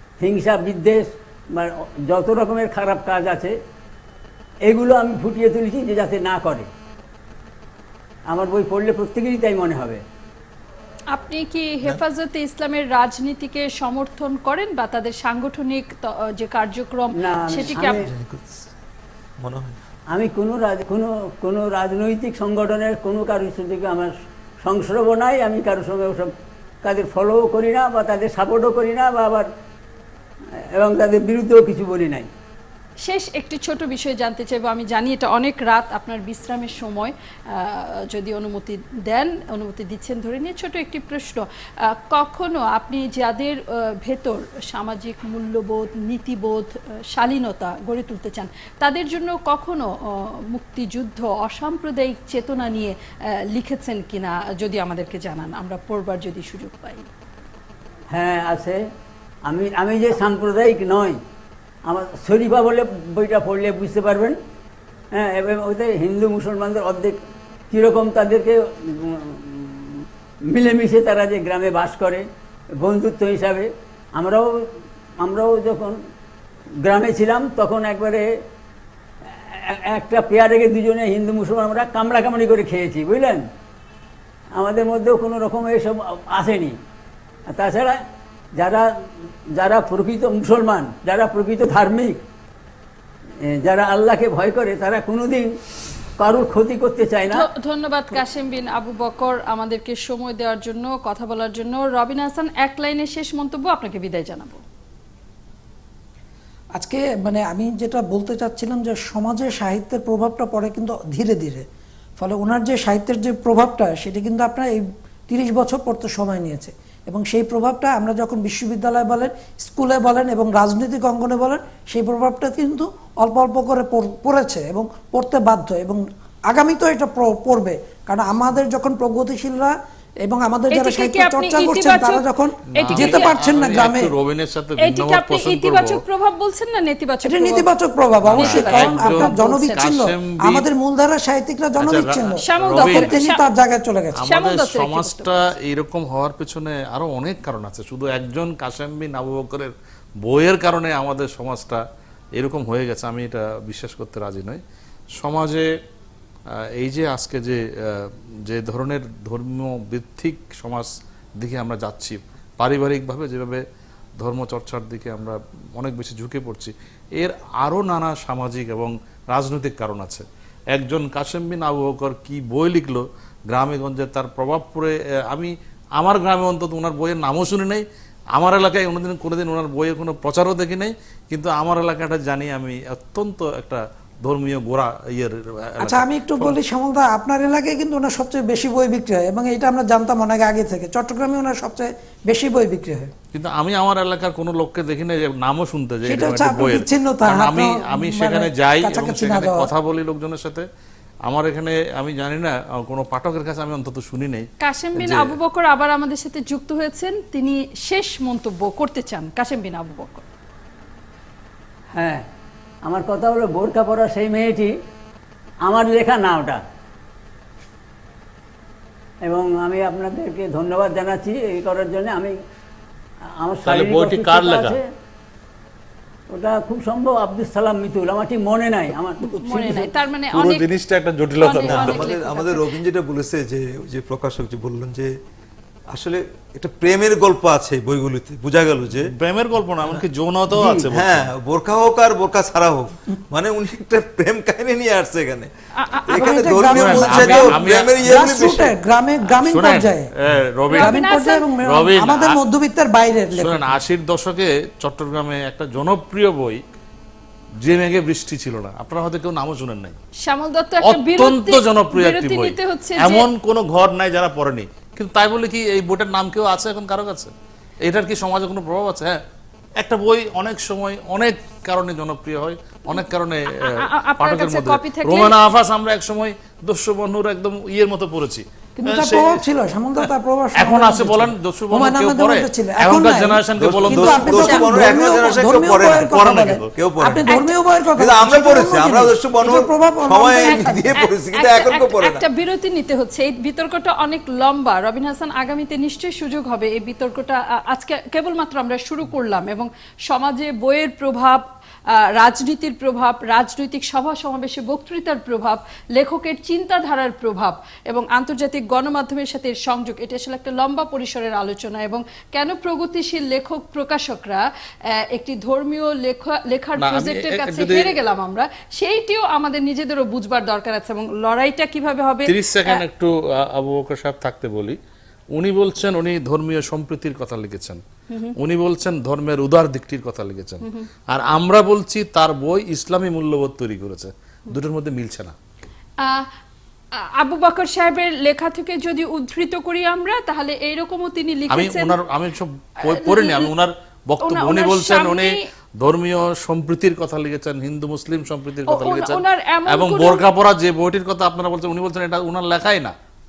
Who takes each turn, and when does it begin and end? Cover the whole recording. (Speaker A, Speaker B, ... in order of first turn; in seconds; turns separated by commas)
Speaker A: 0.2-3.5, Speaker A: 4.7-6.7, Speaker A: 8.3-10.0, Speaker B: 11.1-18.0, Speaker A: 17.2-18.0, Speaker C: 17.7-18.7, Speaker C: 19.4-19.8, Speaker A: 20.1-26.3, Speaker A: 26.8-29.5, Speaker A: 30.5-32.3, Speaker B: 33.0-57.0, Speaker A: 58.1-58.8, Speaker A: 59.4-61.2, Speaker A: 61.9-64.4, Speaker A: 65.1-67.2, Speaker A: 67.7-76.0, Speaker A: 76.8-78.3, Speaker A: 79.2-83.5, Speaker A: 84.5-86.8, Speaker A: 87.5-88.0, Speaker A: 88.6-92.2, Speaker A: 93.4-95.5, Speaker A: 96.2-97.5, Speaker B: 97.3-104.6, Speaker D: 106.8-111.7, Speaker D: 112.2-129.7, Speaker D: 130.2-134.1, Speaker B: 130.7-133.3, Speaker E: 132.7-136.0, Speaker B: 134.8-137.7, Speaker D: 137.2-144.2, Speaker E: 138.2-140.7, Speaker B: 138.4-139.8, Speaker E: 141.8-143.2, Speaker B: 142.4-143.4, Speaker E: 144.2-151.8, Speaker B: 144.2-145.5, Speaker E: 152.3-154.6, Speaker E: 155.2-155.7, Speaker E: 156.7-163.6, Speaker E: 164.2-177.8, Speaker E: 178.3-186.6, Speaker D: 185.8-193.1, Speaker E: 193.3-200.6, Speaker D: 196.0-199.7, Speaker E: 201.2-204.5, Speaker B: 204.6-210.2, Speaker E: 205.0-205.3, Speaker A: 211.9-212.2, Speaker A: 212.8-214.7, Speaker A: 215.6-216.6, Speaker A: 219.2-222.3, Speaker A: 223.3-224.8, Speaker E: 223.6-224.8, Speaker A: 226.3-229.9, Speaker B: 229.2-230.7, Speaker E: 230.3-232.1, Speaker B: 231.4-232.7, Speaker C: 231.5-235.1, Speaker C: 235.9-239.1, Speaker E: 239.0-241.3, Speaker A: 240.6-240.8, Speaker C: 240.9-245.5, Speaker B: 245.8-247.0, Speaker C: 246.1-248.8, Speaker D: 246.1-250.1, Speaker E: 246.7-248.3, Speaker E: 249.2-251.0, Speaker B: 250.7-251.5, Speaker D: 250.8-253.7, Speaker E: 251.6-252.4, Speaker E: 253.3-256.6, Speaker E: 257.6-259.9, Speaker B: 260.2-263.3, Speaker E: 260.8-269.2, Speaker E: 269.8-279.4, Speaker B: 273.6-275.3, Speaker D: 278.8-290.9, Speaker E: 280.6-284.6, Speaker C: 283.6-287.3, Speaker B: 284.3-285.0, Speaker E: 286.0-286.5, Speaker B: 287.3-287.6, Speaker C: 288.0-292.2, Speaker B: 290.4-301.4, Speaker B: 302.1-322.8, Speaker E: 316.8-317.9, Speaker E: 322.2-324.8, Speaker E: 325.3-327.8, Speaker B: 328.1-328.3, Speaker E: 328.4-335.3, Speaker B: 336.0-336.3, Speaker B: 336.9-341.9, Speaker E: 341.5-352.9, Speaker B: 342.8-343.5, Speaker B: 344.2-345.4, Speaker B: 348.7-350.2